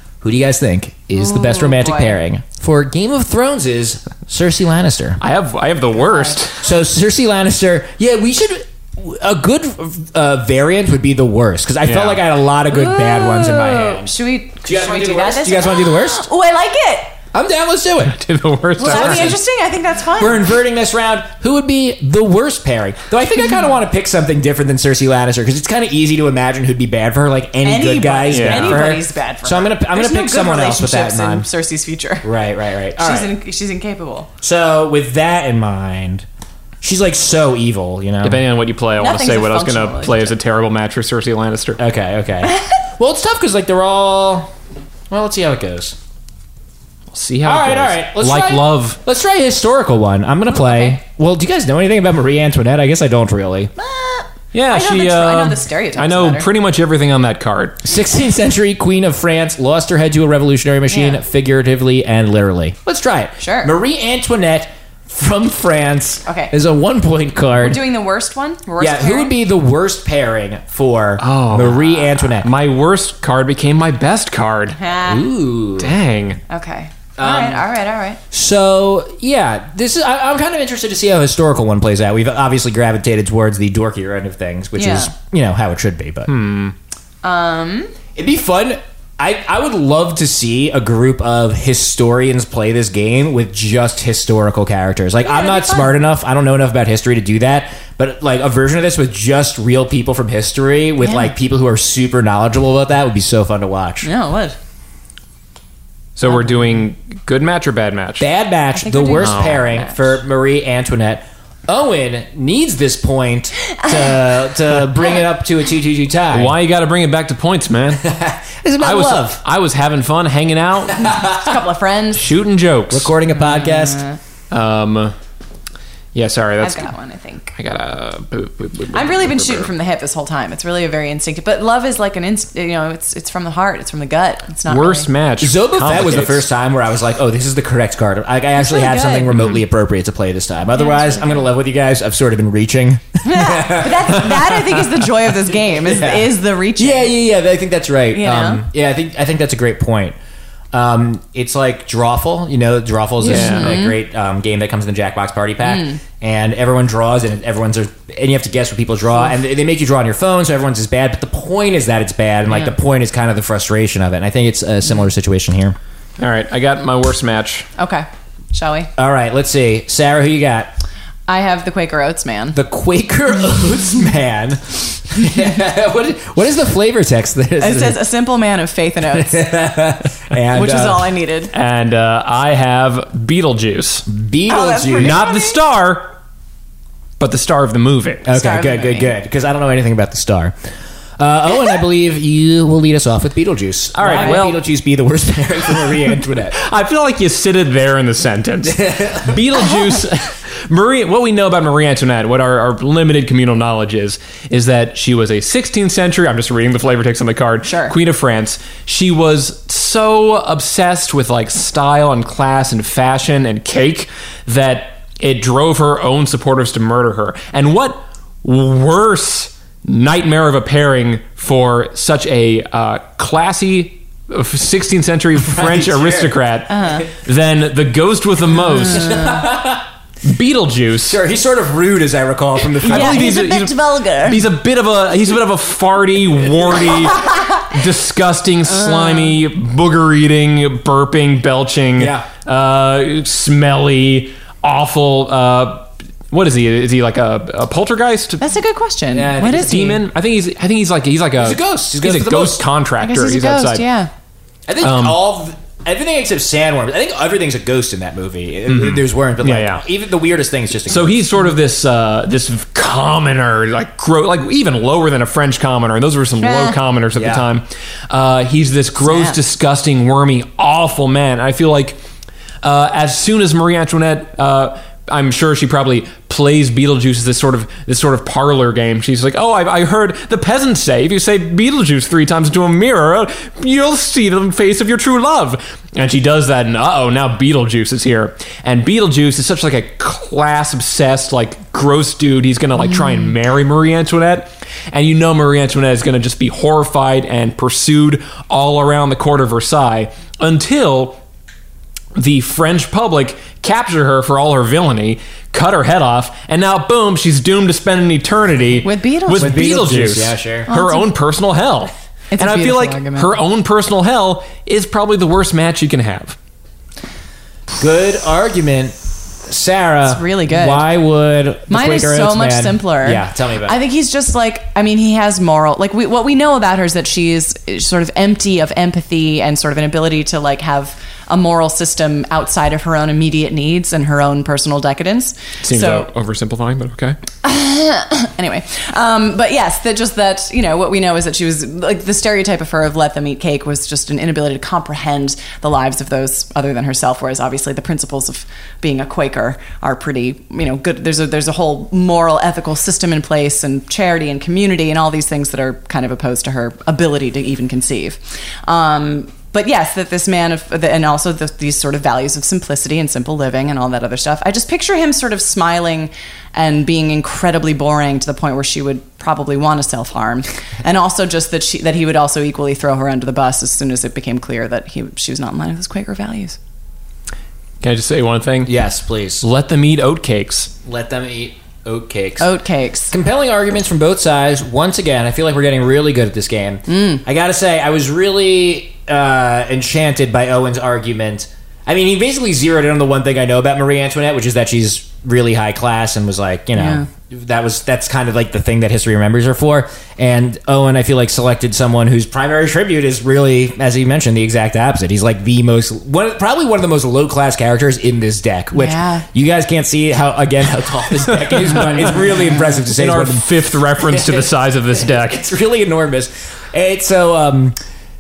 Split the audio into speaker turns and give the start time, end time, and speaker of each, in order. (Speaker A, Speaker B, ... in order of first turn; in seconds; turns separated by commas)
Speaker A: 0.2-5.2, Speaker B: 1.1-2.2, Speaker C: 5.2-6.7, Speaker B: 6.0-6.4, Speaker A: 6.6-16.2, Speaker C: 11.8-12.2, Speaker B: 12.7-17.1, Speaker A: 17.3-18.2, Speaker C: 18.0-19.4, Speaker B: 18.8-20.5, Speaker A: 18.8-19.4, Speaker A: 20.2-31.5, Speaker B: 27.6-32.3, Speaker C: 28.3-28.9, Speaker A: 32.2-33.3, Speaker B: 33.0-34.3, Speaker A: 34.4-36.3, Speaker A: 36.8-38.4, Speaker C: 38.2-41.8, Speaker B: 39.0-40.4, Speaker A: 41.8-44.5, Speaker A: 45.1-46.0, Speaker C: 47.1-49.0, Speaker A: 47.5-53.7, Speaker B: 53.8-56.5, Speaker C: 54.5-57.9, Speaker A: 57.8-67.8, Speaker B: 60.9-61.2, Speaker B: 63.4-63.7, Speaker B: 66.3-66.5, Speaker B: 67.6-69.3, Speaker A: 68.8-72.5, Speaker C: 71.2-74.8, Speaker B: 74.7-75.3, Speaker A: 75.0-75.9, Speaker C: 75.8-76.4, Speaker B: 76.5-78.2, Speaker A: 77.2-77.7, Speaker A: 78.3-86.4, Speaker B: 84.8-85.1, Speaker C: 86.3-86.8, Speaker B: 87.2-87.9, Speaker A: 88.2-104.1, Speaker B: 95.2-96.0, Speaker B: 101.0-101.3, Speaker B: 104.0-104.6, Speaker C: 106.2-108.3, Speaker A: 108.2-116.5, Speaker B: 108.8-110.0, Speaker C: 109.2-109.7, Speaker C: 116.3-118.0, Speaker A: 118.0-119.4, Speaker C: 118.8-121.1, Speaker B: 121.0-122.3, Speaker A: 121.1-121.5, Speaker C: 122.1-123.1, Speaker A: 122.9-124.0, Speaker B: 123.3-124.2, Speaker C: 124.5-125.1, Speaker C: 126.1-126.9, Speaker B: 126.6-127.5, Speaker C: 127.5-129.7, Speaker B: 128.9-135.1, Speaker C: 134.7-136.5, Speaker A: 135.4-150.2, Speaker B: 138.6-139.3, Speaker C: 139.3-139.6, Speaker B: 140.8-141.4, Speaker B: 143.2-147.1, Speaker B: 148.1-148.6, Speaker A: 150.7-165.8, Speaker B: 153.2-154.0, Speaker C: 153.3-153.8, Speaker B: 155.6-156.0, Speaker C: 166.2-167.7, Speaker B: 167.8-168.9, Speaker A: 169.0-170.8, Speaker B: 171.3-172.6, Speaker A: 172.5-178.0, Speaker B: 177.6-179.6, Speaker A: 179.1-181.1, Speaker B: 180.5-181.5, Speaker C: 181.5-184.1, Speaker A: 184.1-185.2, Speaker B: 184.5-185.6, Speaker C: 185.0-186.1, Speaker C: 187.2-188.3, Speaker A: 188.2-190.5, Speaker B: 188.3-189.1, Speaker A: 191.2-196.6, Speaker C: 193.9-194.6, Speaker C: 195.8-229.2, Speaker A: 198.9-199.2, Speaker B: 207.7-207.9, Speaker A: 225.5-226.3, Speaker B: 226.7-227.1, Speaker B: 228.7-229.4, Speaker A: 228.9-229.9, Speaker C: 230.2-231.2, Speaker A: 231.1-233.4, Speaker C: 232.8-248.4, Speaker B: 232.8-234.4, Speaker B: 238.7-239.3, Speaker A: 242.0-242.3, Speaker B: 248.4-250.0, Speaker A: 249.1-249.9, Speaker C: 249.4-253.9, Speaker A: 251.4-252.6, Speaker B: 253.0-254.1, Speaker A: 254.7-261.2, Speaker C: 254.8-255.2, Speaker C: 258.7-259.8, Speaker C: 260.9-272.0, Speaker B: 266.4-266.8, Speaker A: 267.1-267.5, Speaker B: 269.1-269.4, Speaker C: 272.6-301.2, Speaker C: 302.1-316.4, Speaker B: 308.8-309.6, Speaker A: 309.4-310.7, Speaker B: 310.7-311.1, Speaker B: 312.3-313.4, Speaker A: 317.8-323.8, Speaker B: 320.1-320.9, Speaker B: 321.7-336.1, Speaker C: 335.6-337.2, Speaker B: 337.4-376.6, Speaker C: 377.8-378.7, Speaker A: 378.6-379.4, Speaker C: 379.4-380.7, Speaker A: 380.9-382.5, Speaker B: 382.4-383.1, Speaker A: 383.1-413.5, Speaker B: 386.9-387.2, Speaker B: 396.8-397.1, Speaker B: 408.7-409.3, Speaker C: 412.0-412.3, Speaker C: 412.8-415.4, Speaker A: 414.0-417.8